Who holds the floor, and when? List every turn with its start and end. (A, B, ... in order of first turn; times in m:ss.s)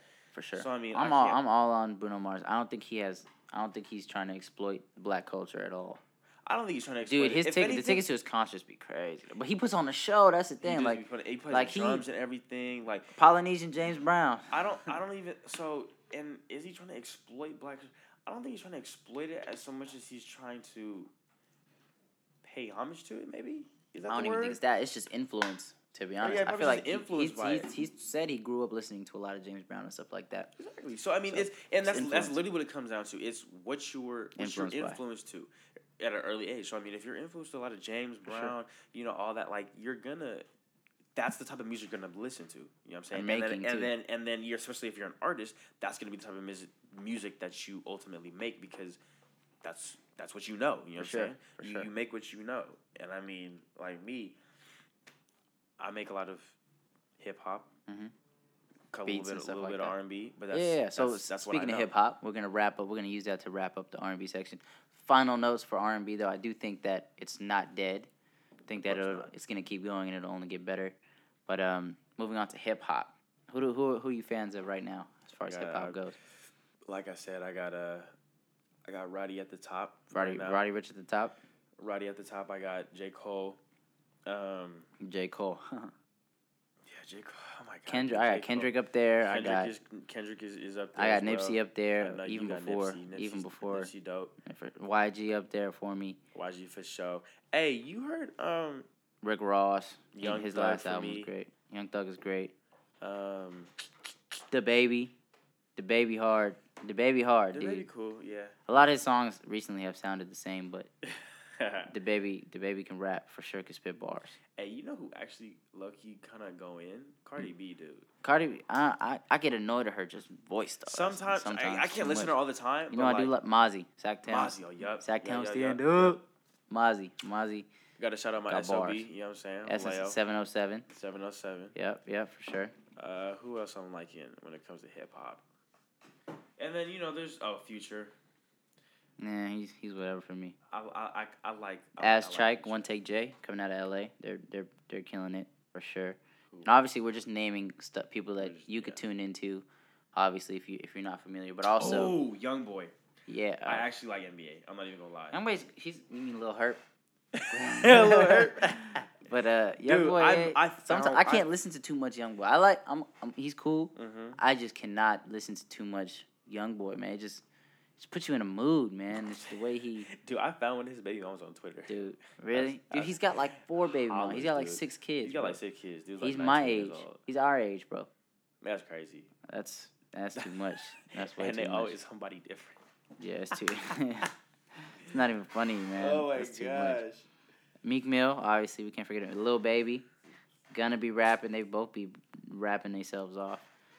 0:00.3-0:06.0 A
0:00.6-0:01.4 B
0:06.4-0:08.0 B
0:07.0-0:12.0 A
0:10.6-0:13.1 B
0:13.2-0:15.0 A
0:14.5-0:21.1 B
0:22.4-0:24.6 B
0:24.1-0:30.5 A
0:26.2-0:27.7 B
0:30.6-0:40.4 B
0:31.3-0:32.4 A
0:34.4-0:35.0 A
0:38.3-0:38.5 A
0:41.2-0:49.0 B
0:43.1-0:43.9 A
0:49.6-0:54.4 B
0:51.0-0:51.9 A
0:55.8-0:56.6 B
0:57.2-0:57.7 B
0:58.9-1:01.9 B
0:59.0-1:00.0 A
1:00.5-1:08.1 A
1:08.7-1:16.2 A
1:08.8-1:09.3 B
1:15.4-1:16.0 B
1:16.9-1:18.1 B
1:18.8-1:20.6 B
1:20.1-1:21.4 A
1:21.8-1:23.6 B
1:24.2-1:24.9 B
1:25.0-1:25.9 A
1:26.9-1:28.7 B
1:27.9-1:29.7 A
1:29.2-1:34.4 B
1:31.0-1:33.9 A
1:34.4-1:36.2 A
1:36.3-1:38.9 B
1:39.2-1:42.5 A
1:40.1-1:41.3 B
1:43.0-1:43.7 B
1:44.5-1:45.1 A
1:45.8-1:47.9 A
1:47.5-1:48.6 B
1:48.7-1:50.9 A
1:51.6-1:51.9 B
1:51.9-1:54.4 A
1:54.6-1:58.1 B
1:58.2-2:02.4 A
2:00.9-2:03.4 B
2:02.9-2:07.7 A
2:04.3-2:06.2 B
2:08.0-2:10.2 B
2:08.5-2:09.1 A
2:09.6-2:10.9 A
2:10.9-2:11.7 B
2:11.7-2:12.7 A
2:13.0-2:15.4 B
2:16.6-2:18.1 B
2:19.2-2:20.6 A
2:20.7-2:22.9 B
2:22.0-2:32.2 A
2:28.4-2:29.0 B
2:31.8-2:32.9 B
2:33.3-2:33.9 A
2:33.6-2:35.4 B
2:35.3-2:36.8 A
2:37.3-2:39.0 B
2:37.5-2:47.4 A
2:39.8-2:41.5 B
2:44.0-2:44.4 B
2:48.0-2:50.1 A
2:50.1-2:51.9 B
2:51.9-2:55.6 A
2:52.5-2:53.3 B
2:54.0-2:57.2 B
2:56.2-2:58.1 A
2:58.6-2:59.3 B
2:59.5-3:02.0 A
3:01.1-3:02.8 B
3:03.2-3:07.0 A
3:06.0-3:07.3 B
3:07.8-3:10.0 A
3:10.7-3:13.6 A